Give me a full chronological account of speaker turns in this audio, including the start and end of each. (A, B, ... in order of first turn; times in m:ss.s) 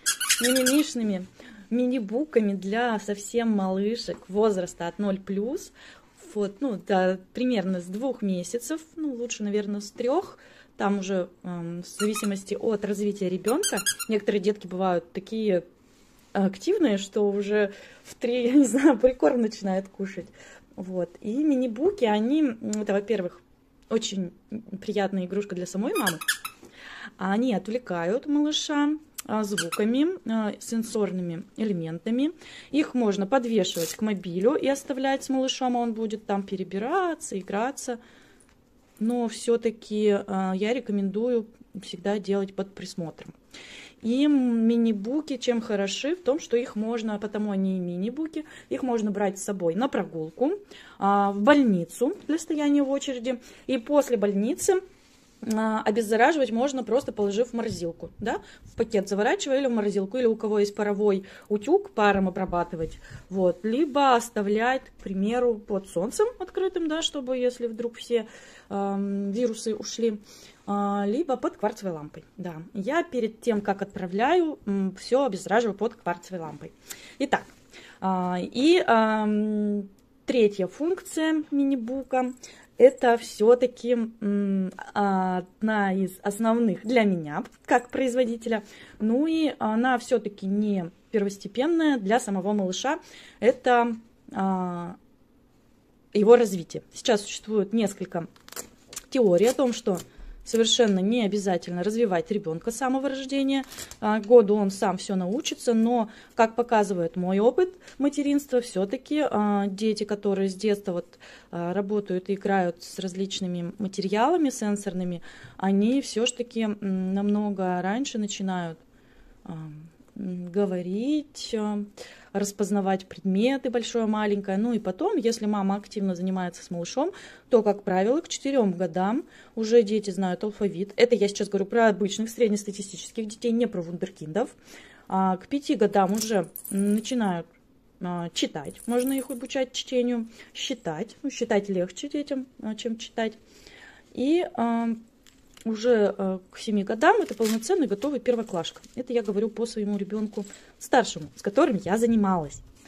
0:00.4-0:15.6 A
0:16.3-0:26.2 A
0:27.2-0:38.0 A
0:39.0-0:43.3 A
0:44.0-0:54.8 A
0:55.4-1:35.0 A
1:36.1-1:38.3 A
1:39.1-1:58.8 A
1:59.4-2:14.5 A
2:15.1-2:17.5 A
2:18.0-2:23.4 A
2:24.1-2:25.0 A
2:25.7-2:32.6 A